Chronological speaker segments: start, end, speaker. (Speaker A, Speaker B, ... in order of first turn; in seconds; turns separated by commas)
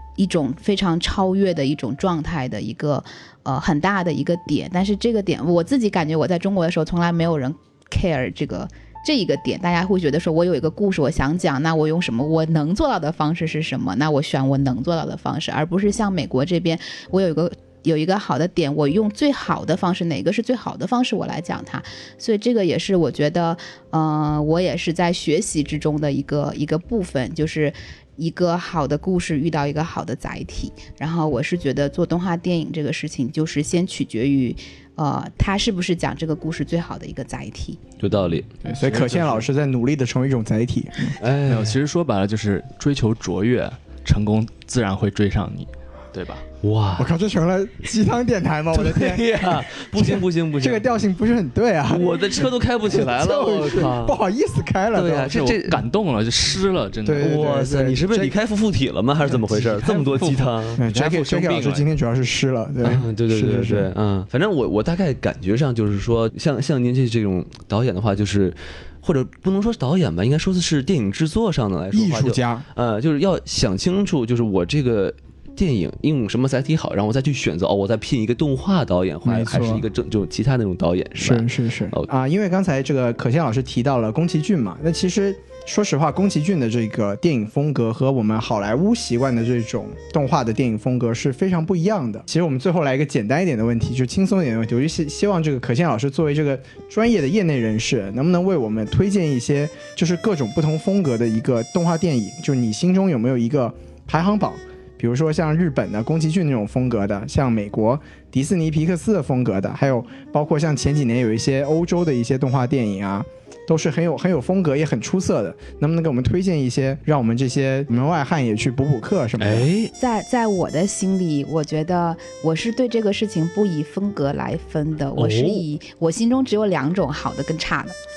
Speaker A: 0.2-37.8, Speaker B: 38.0-38.5, Speaker C: 38.6-39.5, Speaker D: 38.7-41.1, Speaker B: 41.2-41.8, Speaker C: 41.5-46.4, Speaker B: 46.6-47.1, Speaker D: 47.0-55.4, Speaker B: 48.7-50.9, Speaker B: 51.9-54.2, Speaker B: 54.9-55.8, Speaker C: 55.3-57.4, Speaker D: 57.0-58.4, Speaker B: 57.2-60.8, Speaker C: 59.2-61.9, Speaker D: 60.8-63.9, Speaker B: 62.8-82.1, Speaker D: 71.9-72.7, Speaker D: 79.2-79.8, Speaker D: 81.2-119.7, Speaker B: 119.4-119.9, Speaker A: 120.0-128.0, Speaker B: 125.2-125.6